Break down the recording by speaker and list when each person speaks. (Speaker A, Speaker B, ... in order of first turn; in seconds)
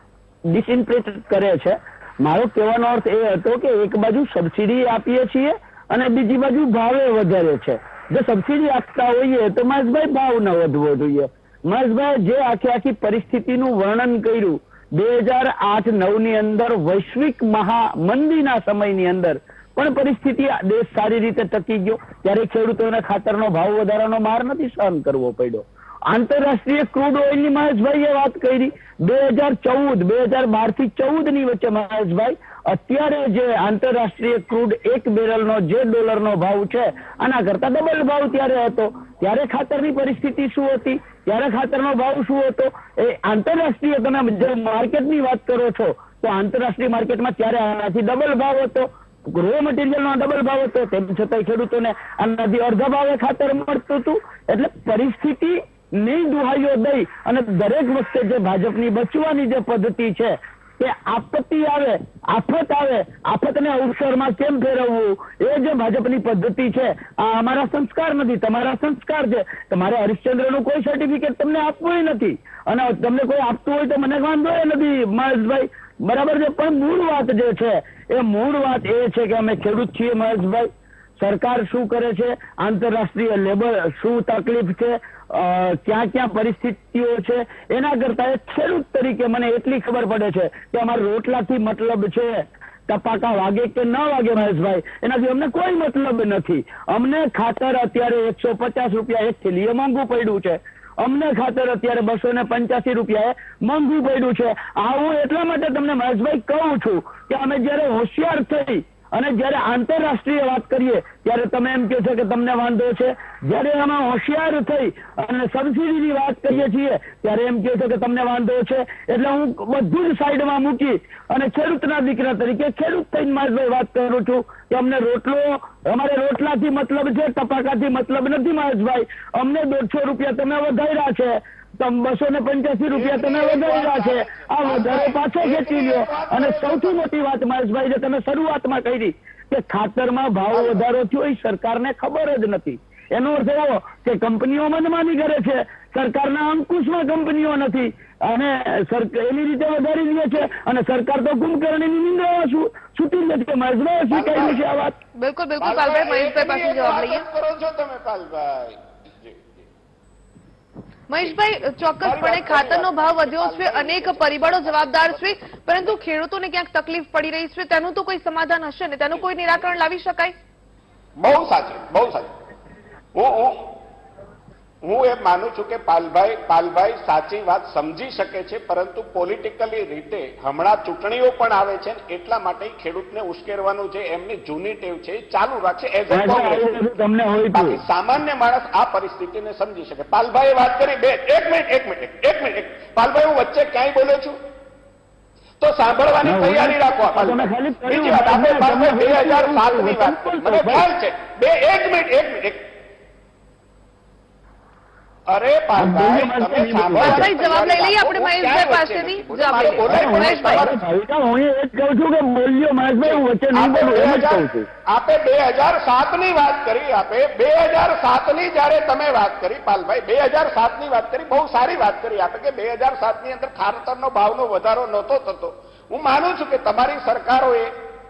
Speaker A: 0.5-155.0, 186.1-187.8, 196.2-200.9, 205.8-207.3, 209.8-214.7
Speaker B: 132.9-137.1, 140.5-140.8, 154.1-154.6, 155.6-159.7, 162.0-165.3, 171.2-172.3, 173.1-173.7, 174.8-186.8, 187.5-194.3, 195.6-202.6, 205.3-210.8, 213.0-227.7
Speaker C: 155.2-157.2, 161.1-170.3, 207.0-210.8